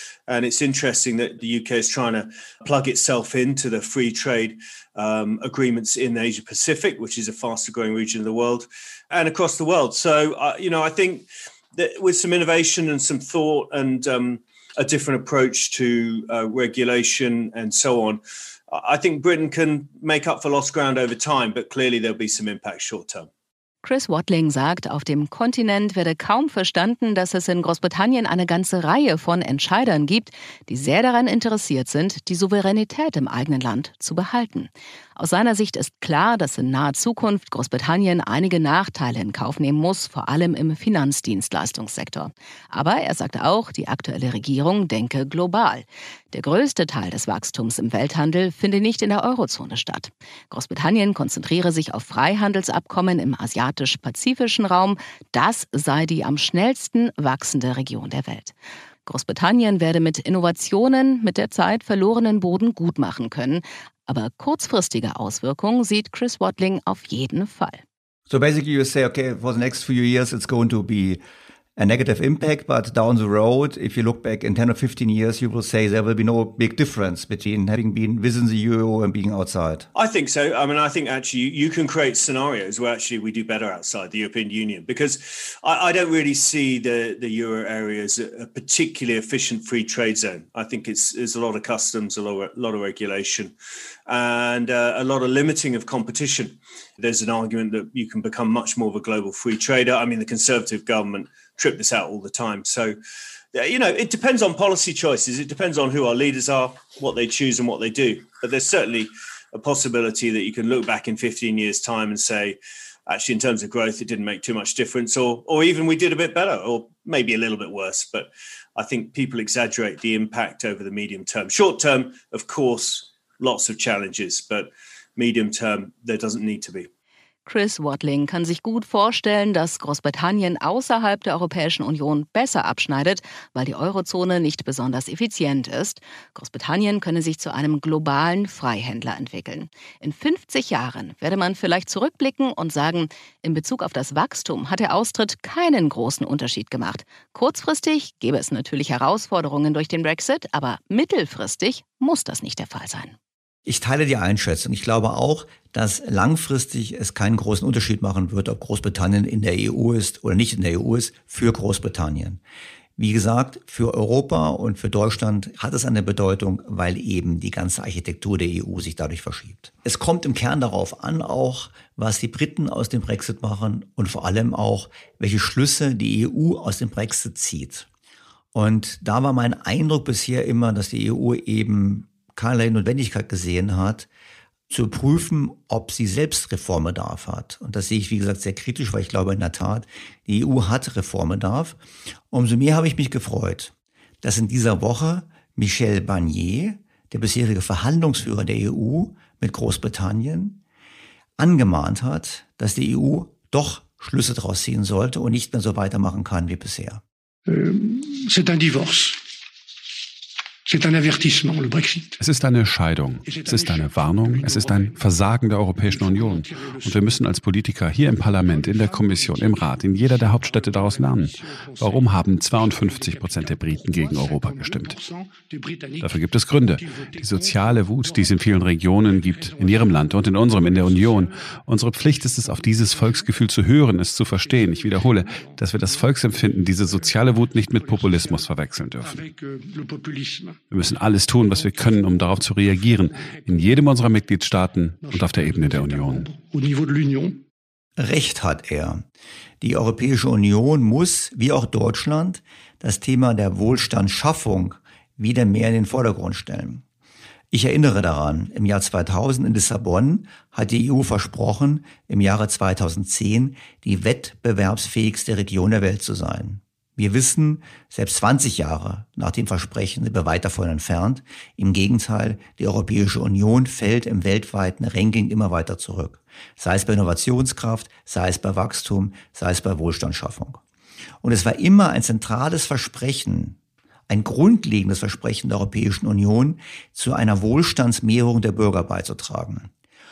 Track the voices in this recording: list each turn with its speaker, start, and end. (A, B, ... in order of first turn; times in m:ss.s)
0:00.3-0:23.3 A
0:23.8-0:58.5 B
0:59.0-1:07.8 B
1:08.3-1:11.2 C
1:11.8-1:19.9 C
1:19.9-1:33.5 A
1:34.1-1:43.0 A
1:43.5-2:06.9 A
2:07.4-2:33.1 B
2:33.6-2:42.4 C
2:43.0-2:57.8 C
2:58.5-3:04.1 C
3:04.7-3:11.8 C
3:12.3-3:20.6 C
3:21.4-3:27.0 C
3:27.5-3:29.3 D
3:30.6-3:32.2 D
3:32.2-3:44.9 E
3:33.2-3:37.4 D
3:38.0-3:53.5 D
3:46.0-3:59.2 E
3:54.2-4:00.6 D
4:00.7-4:06.2 E
4:01.4-4:04.3 D
4:04.9-4:07.4 D
4:08.0-4:09.0 C
4:09.6-4:16.8 C
4:17.5-4:40.6 C
4:41.2-4:43.6 C
4:44.1-4:49.7 C